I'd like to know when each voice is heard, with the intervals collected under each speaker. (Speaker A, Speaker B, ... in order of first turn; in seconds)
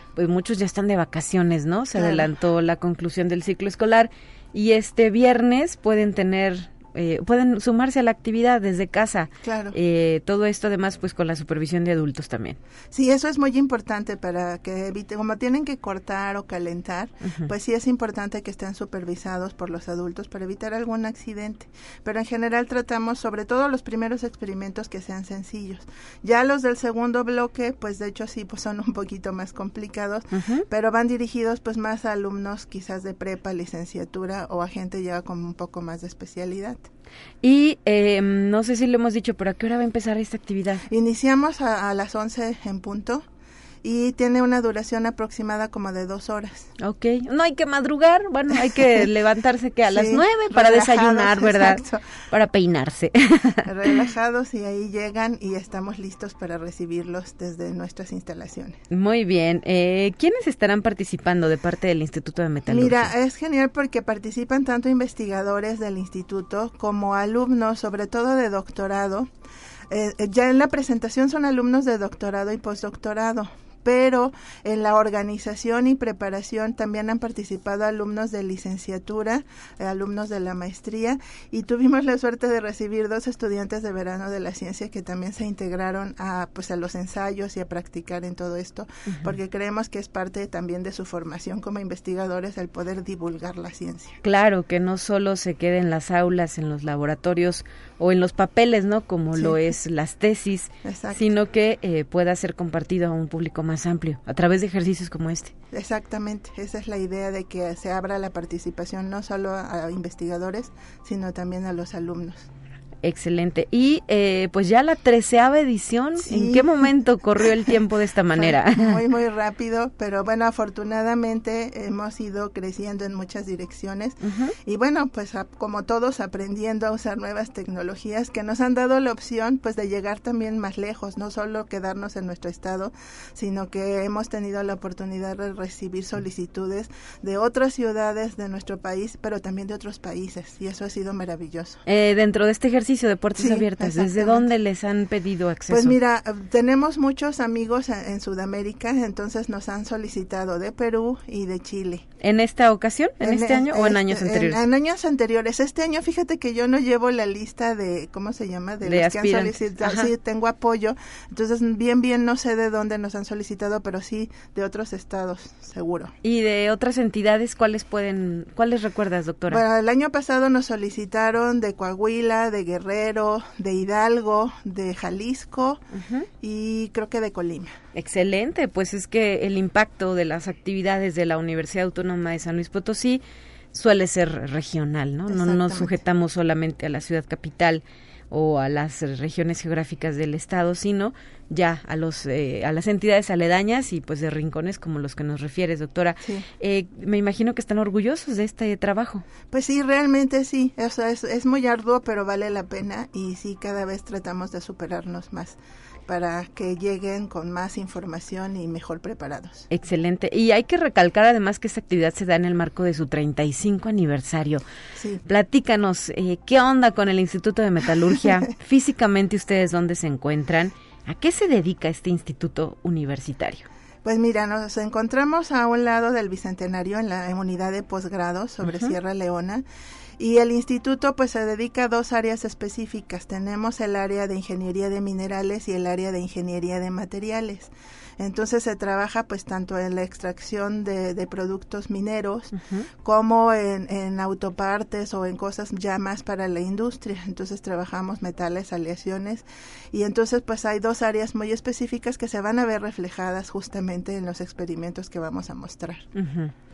Speaker A: 0.1-12.6, 30.3-30.6, 37.4-40.8, 46.8-53.6, 58.9-63.1, 94.2-105.5, 113.0-119.0, 124.2-124.5, 141.8-145.9, 152.2-154.6, 158.8-160.1, 166.2-169.6, 175.9-176.3, 177.9-183.2, 183.7-199.2, 209.7-214.6, 215.2-223.7, 228.7-228.9, 242.5-242.8, 256.1-256.5
Speaker B: 1.9-2.3, 9.4-9.7, 12.9-36.9, 40.9-43.3, 43.8-46.7, 48.7-49.0, 49.9-52.0, 53.6-58.8, 62.6-69.3, 69.9-94.2, 100.8-101.2, 105.7-112.5, 116.2-116.8, 118.3-141.8, 143.4-144.4, 145.7-152.0, 153.2-166.1, 169.5-175.8, 176.4-177.8, 185.3-186.0, 199.5-209.7, 224.0-229.6, 230.2-256.1